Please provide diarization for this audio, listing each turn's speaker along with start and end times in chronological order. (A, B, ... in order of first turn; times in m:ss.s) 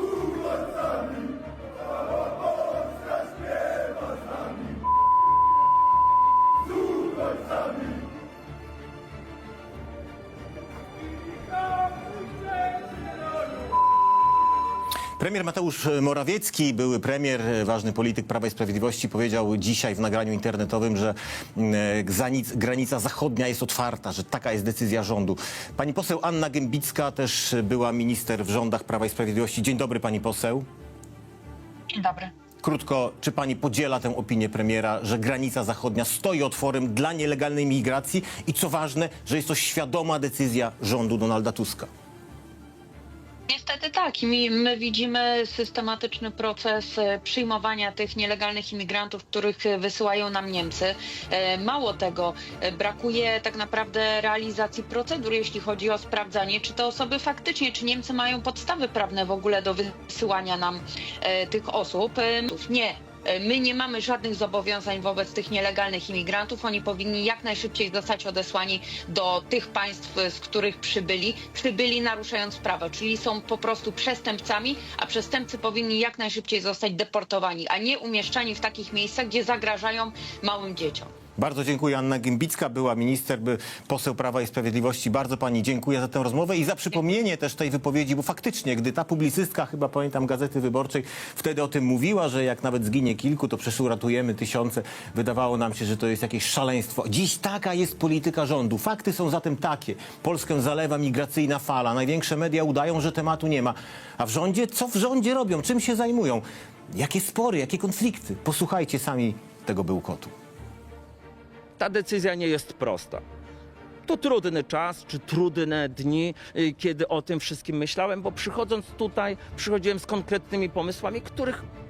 0:15.2-0:30.7 A
0:31.9-0:32.3 B
0:32.6-0:41.9 A
0:43.5-1:21.0 B
1:21.4-1:50.3 A
1:51.8-1:53.2 C
1:54.0-2:01.6 C